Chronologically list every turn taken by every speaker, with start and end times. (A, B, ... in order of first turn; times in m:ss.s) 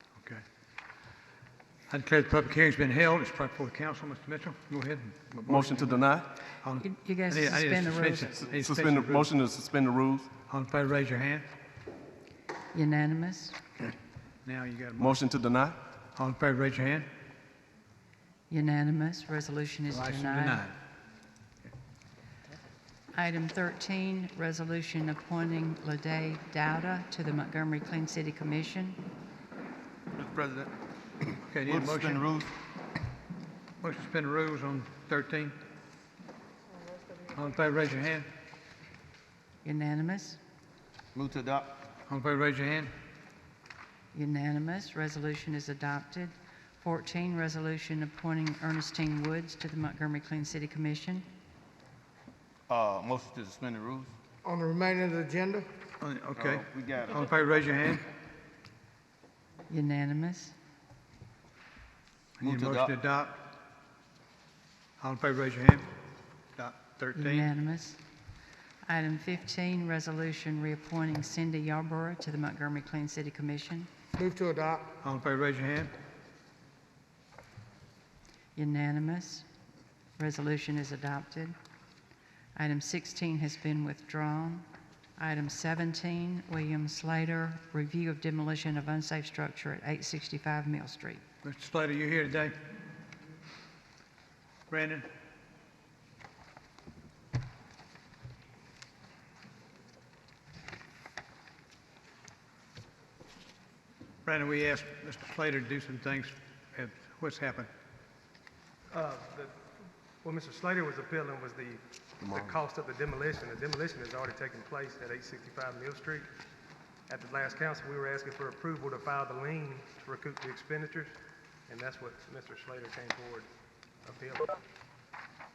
0:00.2-0:00.4 A
0:01.9-0:06.0 A
0:05.4-0:06.3 B
0:06.6-0:09.3 A
0:06.8-0:08.4 C
0:08.4-0:10.3 B
0:10.5-0:11.4 A
0:12.7-0:13.6 C
0:14.4-0:15.2 A
0:15.0-0:15.8 B
0:16.2-0:17.1 A
0:18.5-0:20.6 C
0:19.9-0:20.7 A
0:23.1-0:29.0 C
0:30.2-0:30.7 D
0:31.4-0:32.3 A
0:31.6-0:32.5 D
0:33.8-0:35.5 A
0:36.9-0:37.5 E
0:37.3-0:38.3 A
0:39.6-0:40.4 C
0:41.1-0:41.8 D
0:42.1-0:42.9 A
0:44.1-0:51.2 C
0:52.7-0:54.1 D
0:54.4-0:55.7 E
0:56.0-0:58.0 A
0:56.4-0:57.2 D
0:59.7-1:00.5 C
1:02.4-1:03.4 A
1:02.4-1:02.9 D
1:05.0-1:05.9 A
1:06.6-1:07.5 A
1:07.1-1:08.0 C
1:08.8-1:13.9 C
1:14.2-1:14.9 E
1:15.0-1:15.9 A
1:18.6-1:19.4 C
1:20.2-1:21.5 C
1:22.6-1:24.6 C
1:25.2-1:31.2 C
1:31.4-1:32.5 A
1:34.7-1:35.0 A
1:44.2-1:47.7 A
1:48.9-1:49.6 F
1:50.2-1:56.3 F
1:57.1-2:01.1 F
2:01.7-2:03.5 F
2:04.0-2:04.6 F